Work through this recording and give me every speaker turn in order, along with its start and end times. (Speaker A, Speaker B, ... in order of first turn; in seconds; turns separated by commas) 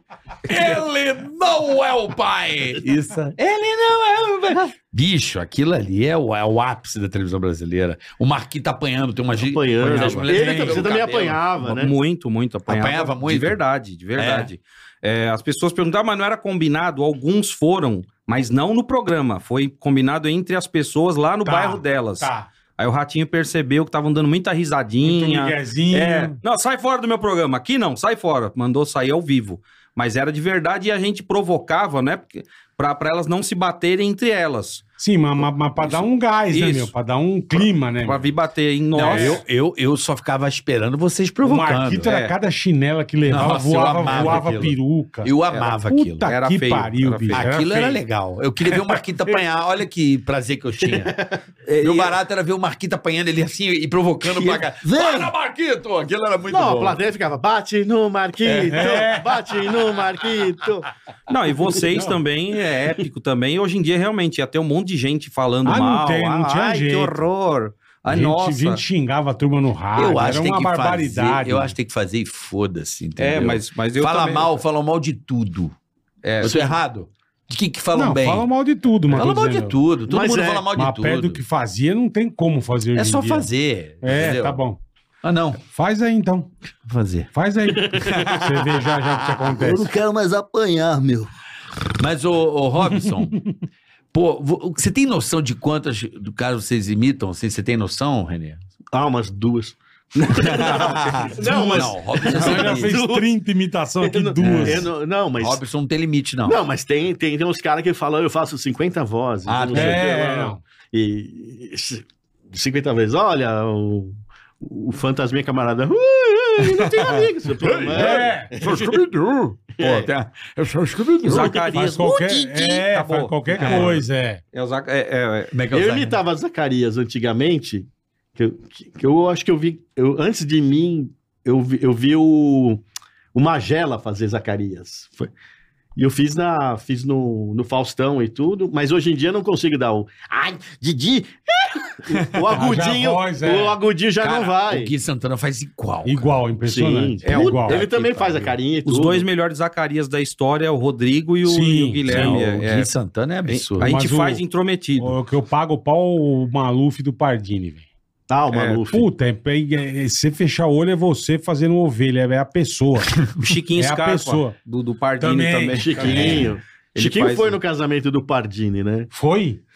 Speaker A: 0.5-11.5, Speaker B: 9.4-11.9, Speaker C: 10.1-10.8, Speaker C: 11.7-34.9, Speaker A: 12.7-13.6, Speaker A: 14.2-14.5, Speaker D: 21.4-22.5, Speaker D: 25.0-26.4, Speaker D: 35.0-38.3, Speaker C: 35.8-36.9, Speaker C: 37.5-39.4, Speaker A: 38.9-42.1, Speaker D: 39.0-39.4, Speaker D: 41.4-48.0, Speaker C: 42.1-42.3, Speaker A: 43.3-46.3, Speaker C: 45.5-47.5, Speaker A: 47.3-57.0, Speaker B: 50.9-51.4, Speaker C: 51.8-52.1, Speaker B: 54.3-54.6, Speaker E: 54.8-55.3, Speaker B: 56.5-60.9, Speaker A: 58.4-59.0, Speaker D: 58.7-59.3, Speaker C: 61.3-68.8, Speaker D: 65.6-67.1, Speaker D: 68.1-71.7, Speaker A: 70.0-75.7, Speaker C: 73.2-74.6, Speaker C: 76.2-76.7, Speaker A: 76.4-78.5, Speaker D: 77.9-79.8, Speaker A: 79.1-81.4, Speaker B: 80.1-80.7, Speaker D: 80.7-83.5, Speaker A: 82.9-84.6, Speaker D: 84.0-84.8, Speaker A: 85.2-85.6, Speaker D: 85.7-86.5, Speaker A: 86.9-87.3, Speaker D: 87.3-89.9, Speaker A: 88.0-88.8, Speaker E: 89.5-91.3, Speaker A: 92.0-93.4, Speaker A: 94.1-98.6, Speaker B: 98.9-103.3, Speaker A: 100.3-102.9, Speaker D: 102.3-104.8, Speaker B: 104.0-105.6, Speaker A: 104.4-106.6, Speaker B: 106.4-119.0, Speaker A: 109.5-110.0, Speaker D: 109.7-110.6, Speaker A: 116.6-121.7, Speaker D: 117.9-118.5, Speaker B: 119.8-120.1, Speaker C: 121.2-124.0, Speaker D: 121.7-124.4, Speaker A: 123.6-124.0, Speaker C: 124.5-125.5, Speaker A: 125.5-126.2, Speaker B: 125.7-132.8, Speaker B: 133.3-135.3, Speaker B: 135.9-144.9, Speaker D: 142.5-143.8, Speaker A: 144.2-146.4, Speaker D: 146.0-147.8, Speaker B: 146.7-149.3, Speaker C: 147.2-147.7, Speaker A: 147.7-148.5, Speaker C: 148.8-152.9, Speaker D: 151.4-152.4, Speaker A: 152.1-153.9, Speaker C: 153.5-155.1, Speaker D: 153.8-154.4, Speaker D: 155.0-157.9, Speaker B: 158.3-159.1, Speaker C: 158.5-158.8, Speaker D: 158.9-163.2, Speaker C: 163.4-166.4, Speaker D: 163.8-164.6, Speaker D: 165.2-166.5, Speaker B: 165.7-169.1, Speaker A: 166.1-166.5, Speaker C: 166.9-167.6, Speaker D: 169.1-169.6